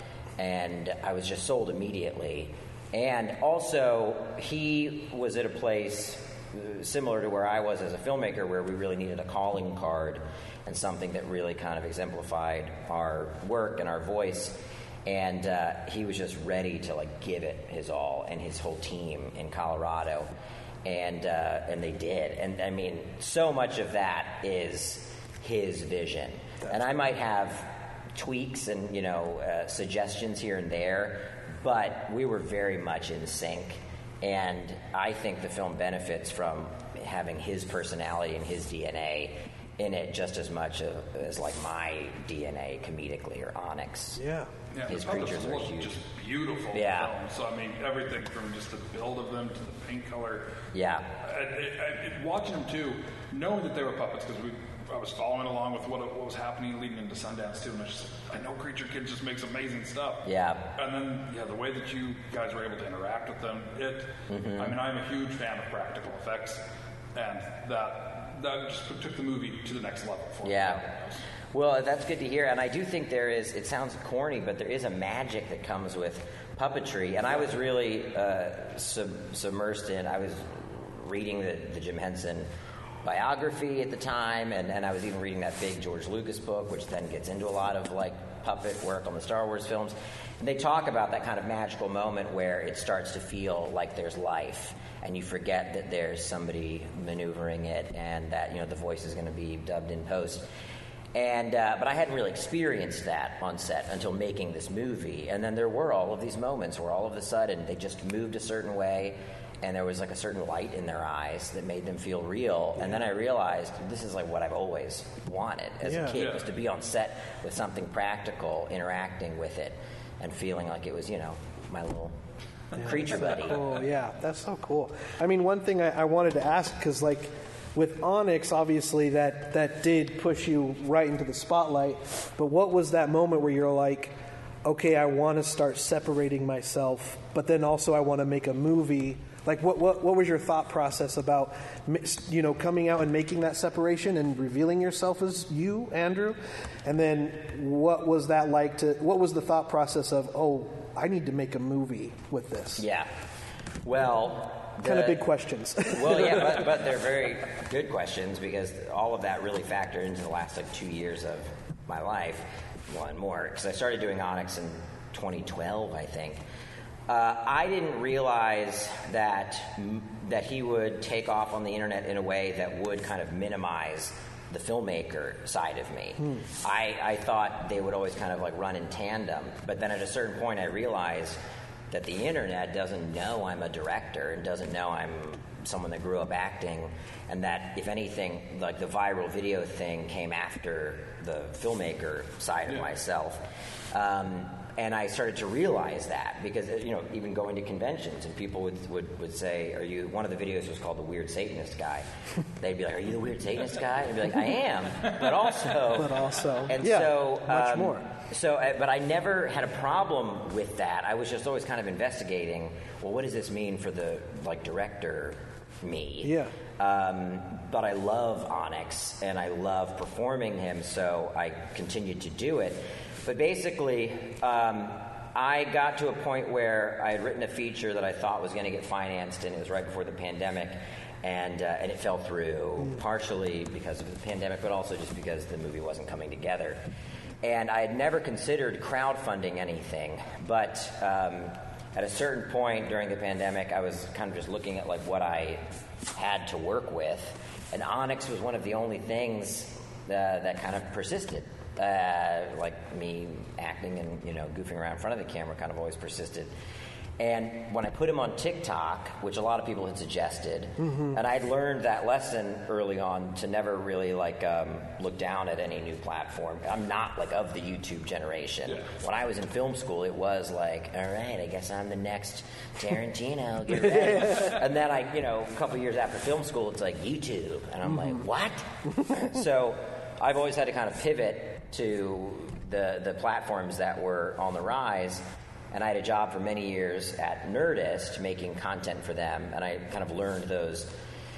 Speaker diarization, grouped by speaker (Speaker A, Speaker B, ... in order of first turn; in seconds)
Speaker A: 0.4-20.3, 20.9-44.2, 44.9-45.9, 46.7-47.1, 50.7-51.1, 60.2-60.7, 64.3-64.8, 70.4-70.9, 71.5-82.5, 83.0-100.5, 101.1-122.2, 122.7-123.7, 152.8-153.1, 153.8-155.3, 155.9-166.4, 167.1-181.4, 181.9-202.1, 202.6-236.8, 237.4-245.6, 246.2-256.5, 257.2-285.2, 285.7-290.9
Speaker B: 44.2-44.5, 115.8-116.2, 122.8-152.8, 154.8-156.7, 205.9-208.1, 216.2-216.5, 260.8-261.1, 273.9-274.5
Speaker C: 44.7-50.5, 51.2-66.6, 67.2-71.2, 116.1-116.5, 268.7-268.9